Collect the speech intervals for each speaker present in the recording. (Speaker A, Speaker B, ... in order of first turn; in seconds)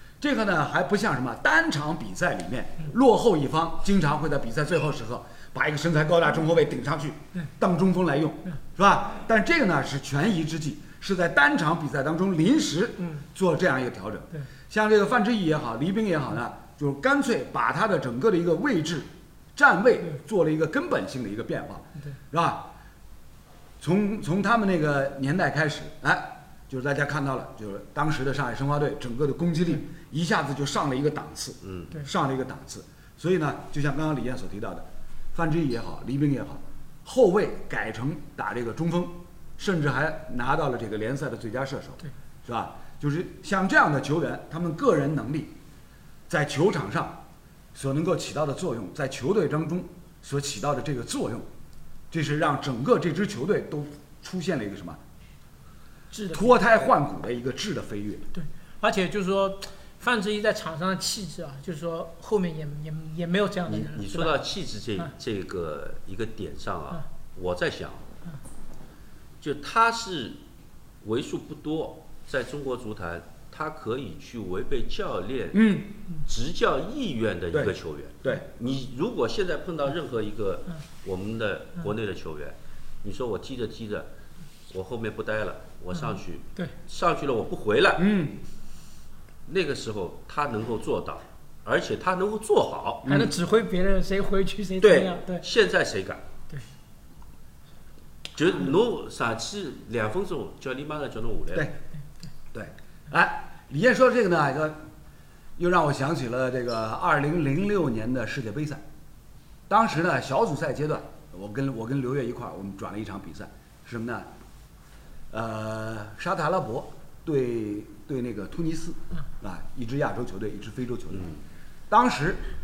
Speaker A: 0.2-22.7, 23.8-45.5, 46.3-47.2, 47.7-51.5, 52.1-55.0, 56.3-58.3, 75.5-75.9, 77.5-78.5, 88.0-88.4, 93.0-93.3, 102.5-104.9, 105.6-108.8, 109.7-114.3, 115.3-121.3, 121.9-122.4
Speaker B: 31.6-32.0, 63.7-68.1, 69.4-70.4, 71.0-84.1, 84.7-88.0, 89.5-93.1, 94.8-96.2, 98.3-101.7, 121.1-121.4
Speaker C: 56.1-56.5, 58.3-64.4, 86.0-86.7, 93.1-95.5